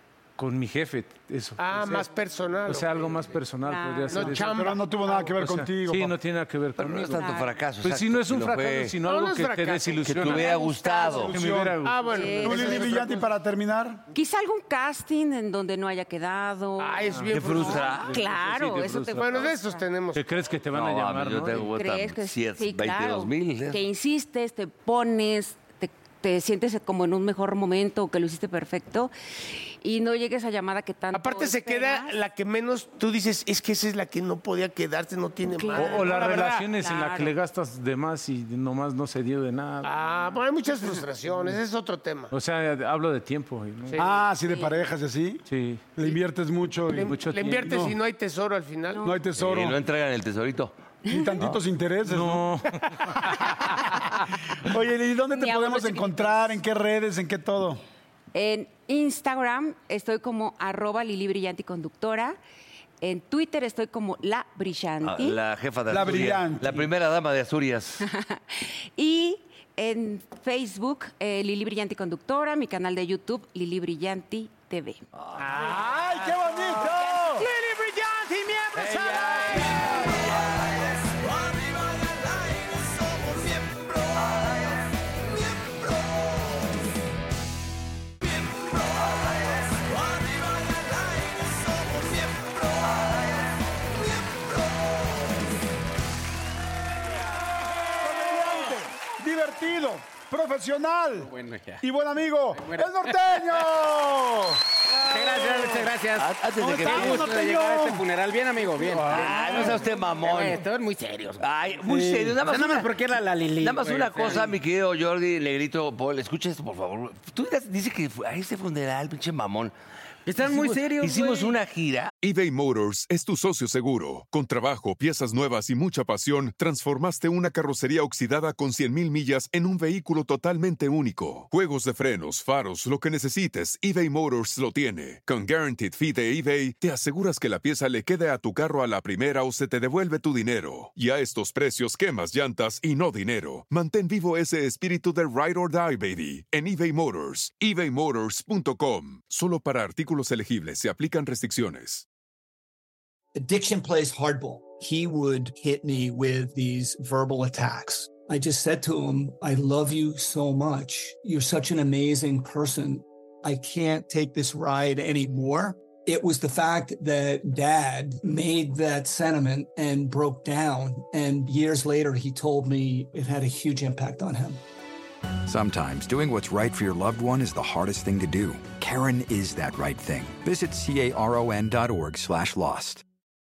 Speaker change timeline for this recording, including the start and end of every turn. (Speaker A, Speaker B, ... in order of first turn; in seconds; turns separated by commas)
Speaker A: 0.4-2.1, Speaker B: 1.6-3.4, Speaker A: 2.6-4.7, Speaker C: 3.6-4.2, Speaker B: 4.1-5.3, Speaker D: 4.1-6.1, Speaker A: 5.4-10.5, Speaker E: 6.8-9.0, Speaker C: 7.2-7.5, Speaker B: 9.0-11.3, Speaker E: 10.1-11.3, Speaker C: 10.3-11.3, Speaker A: 11.3-12.6, Speaker D: 11.3-11.8, Speaker B: 11.8-13.2, Speaker C: 12.1-13.2, Speaker D: 12.4-14.0, Speaker C: 14.1-19.8, Speaker B: 16.8-18.1, Speaker A: 17.1-19.5, Speaker E: 17.3-18.1, Speaker B: 19.2-20.2, Speaker A: 20.1-21.7, Speaker E: 20.7-23.8, Speaker C: 21.7-32.2, Speaker B: 31.1-36.6, Speaker C: 35.5-37.3, Speaker A: 35.8-40.0, Speaker B: 39.8-42.3, Speaker A: 42.3-44.0, Speaker D: 44.0-48.0, Speaker C: 44.4-44.8, Speaker A: 45.5-45.9, Speaker B: 46.9-49.2, Speaker A: 47.0-48.0, Speaker C: 48.9-49.2, Speaker D: 49.0-49.8, Speaker E: 49.4-50.8, Speaker C: 51.1-51.3, Speaker D: 51.1-52.5, Speaker A: 52.0-53.3, Speaker D: 53.4-57.8, Speaker C: 55.3-56.6, Speaker C: 58.3-62.4, Speaker C: 63.0-65.4, Speaker E: 65.0-68.1, Speaker D: 65.9-66.9, Speaker C: 68.0-75.0, Speaker E: 75.1-75.4, Speaker A: 75.4-76.8, Speaker D: 75.4-77.5, Speaker B: 77.4-80.0, Speaker A: 79.1-79.7, Speaker D: 79.6-80.2, Speaker E: 80.0-80.6, Speaker E: 84.1-84.7, Speaker D: 98.0-105.8, Speaker F: 101.2-101.8, Speaker F: 102.5-103.2, Speaker F: 105.0-111.4, Speaker E: 106.1-107.4, Speaker D: 106.6-108.1, Speaker D: 108.8-109.8, Speaker E: 109.1-110.6, Speaker A: 109.2-109.8, Speaker E: 111.4-112.9, Speaker D: 111.9-112.4, Speaker F: 112.3-114.6, Speaker E: 113.6-119.7, Speaker F: 120.3-121.6, Speaker E: 120.6-122.1, Speaker G: 122.2-152.1, Speaker H: 153.4-174.6, Speaker I: 175.5-183.0